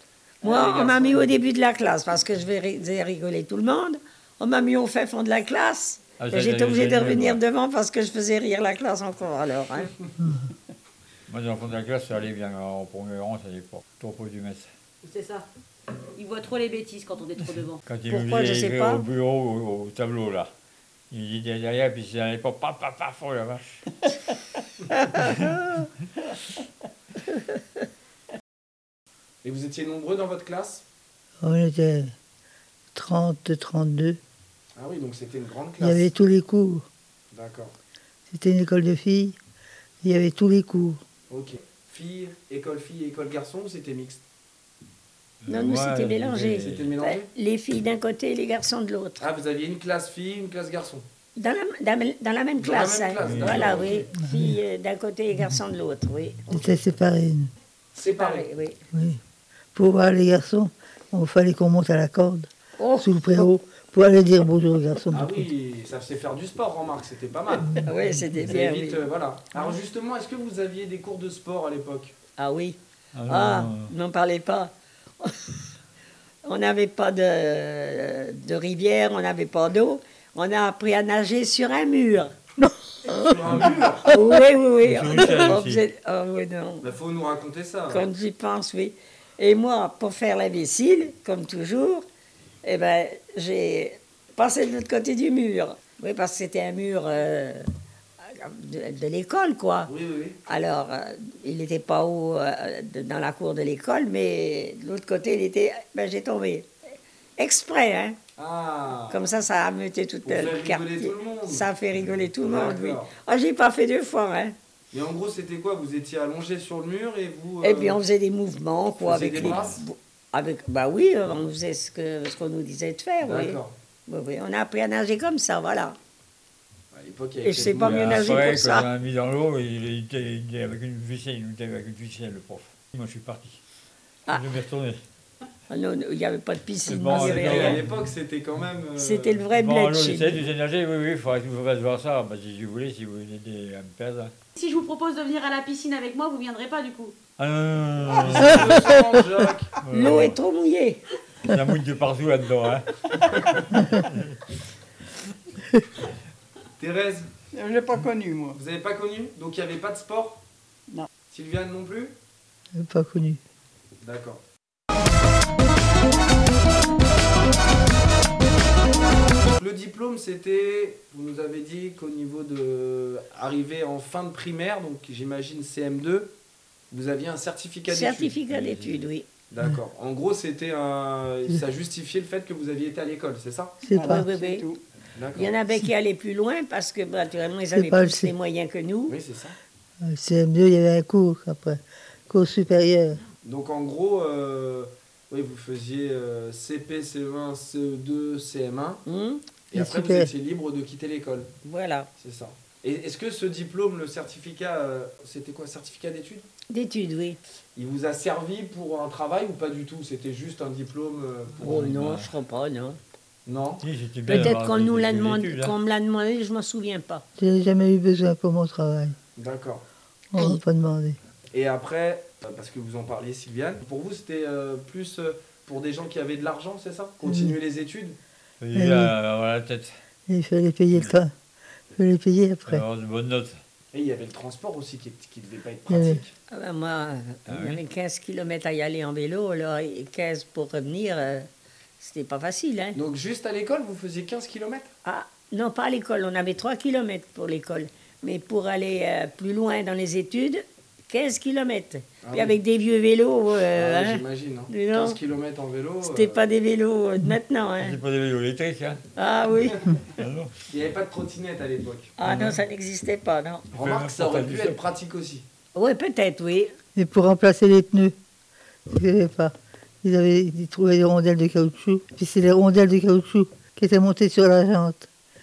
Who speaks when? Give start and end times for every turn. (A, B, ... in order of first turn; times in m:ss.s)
0:00.4-0:01.3 A
0:00.4-0:09.9 B
0:06.2-0:07.4 C
0:11.3-0:14.7 C
0:15.0-0:15.4 D
0:16.2-0:17.8 D
0:17.8-0:20.5 C
0:18.1-0:19.0 B
0:21.1-0:23.8 C
0:25.2-0:25.6 C
0:29.4-0:30.8 A
0:31.4-0:32.1 E
0:32.9-0:34.2 E
0:34.8-0:36.1 A
0:35.8-0:36.8 E
0:37.3-0:37.7 A
0:38.3-0:39.4 E
0:40.0-0:41.0 E
0:41.3-0:44.2 A
0:45.4-0:46.9 C
0:45.5-0:49.2 B
0:46.6-0:47.3 A
0:49.2-0:51.0 A
0:51.4-0:56.4 B
0:52.6-0:54.1 A
0:53.2-0:53.9 C
0:54.2-0:54.6 E
0:56.5-0:57.5 E
0:57.9-0:58.5 A
0:58.1-0:58.8 B
0:58.9-0:59.2 E
0:59.7-1:05.5 E
1:02.8-1:03.5 B
1:05.1-1:07.9 A
1:07.8-1:09.0 B
1:08.4-1:12.1 A
1:12.4-1:15.5 B
1:13.1-1:13.9 C
1:16.4-1:22.3 B
1:23.0-1:24.1 A
1:24.0-1:26.9 B
1:24.8-1:25.8 C
1:26.8-1:28.1 A
1:27.9-1:32.0 B
1:32.6-1:37.6 B
1:38.2-1:39.9 B
1:39.9-1:40.4 A
1:40.4-1:46.7 B
1:47.4-1:48.2 B
1:48.4-1:49.2 A
1:49.1-1:54.6 B
1:50.2-1:51.7 A
1:52.4-1:53.1 A
1:54.9-1:58.0 A
1:57.6-2:06.0 B
1:59.0-1:59.8 A
1:59.2-1:59.8 C
2:03.2-2:03.7 A
2:06.9-2:08.5 A
2:07.4-2:08.9 B
2:07.7-2:13.6 C
2:14.3-2:15.0 C
2:15.7-2:17.8 B
2:16.9-2:17.9 C
2:17.1-2:19.5 A
2:19.0-2:20.4 B
2:19.5-2:24.3 C
2:24.5-2:27.2 D
2:27.4-2:29.0 C
2:28.0-2:29.8 A
2:29.8-2:30.4 C
2:29.9-2:31.0 B
2:31.4-2:32.9 C
2:33.4-2:33.6 A
2:33.8-2:34.4 C
2:36.8-2:37.3 A
2:37.5-2:38.6 F
2:38.5-2:40.4 A
2:41.3-2:42.2 A
2:42.7-2:43.4 E
2:44.0-2:44.4 A
2:49.5-2:56.3 A
2:56.9-2:58.4 A
2:57.9-2:59.2 B
2:58.5-2:59.0 C
2:59.5-3:03.8 A
3:03.8-3:04.2 E
3:03.9-3:04.8 F
3:04.0-3:04.6 B
3:05.1-3:05.5 A
3:05.3-3:09.2 B
3:07.7-3:08.3 E
3:09.1-3:09.6 A
3:10.0-3:13.2 E
3:13.4-3:19.0 A
3:19.0-3:19.4 B
3:19.7-3:21.5 A
3:19.7-3:20.3 E
3:21.6-3:22.1 B
3:22.2-3:26.4 A
3:26.7-3:27.4 B
3:27.7-3:31.9 A
3:31.6-3:33.0 B
3:31.6-3:32.3 C
3:33.4-3:33.8 A
3:33.8-3:35.7 C
3:34.2-3:37.2 B
3:37.4-3:39.2 E
3:39.4-3:39.8 A
3:40.3-3:41.2 E
3:41.5-3:48.2 A
3:47.2-3:47.6 E
3:48.6-3:50.0 C
3:48.7-3:49.1 E
3:50.3-3:51.3 E
3:51.9-3:52.8 E
3:52.7-3:53.6 C
3:53.9-3:56.3 A
3:55.9-3:56.2 E
3:56.5-4:01.5 B
3:57.5-3:57.8 C
4:02.0-4:03.0 B
4:02.9-4:04.9 A
4:05.0-4:15.2 B
4:12.2-4:12.6 A
4:13.7-4:16.4 A
4:16.0-4:18.0 B
4:17.8-4:19.0 C
4:19.2-4:19.9 B
4:20.2-4:20.6 C
4:20.7-4:22.1 A
4:22.2-4:23.6 B
4:22.2-4:22.6 C
4:23.7-4:24.8 C
4:23.7-4:25.4 A
4:25.7-4:26.7 B
4:26.9-4:28.1 E
4:28.9-4:35.1 E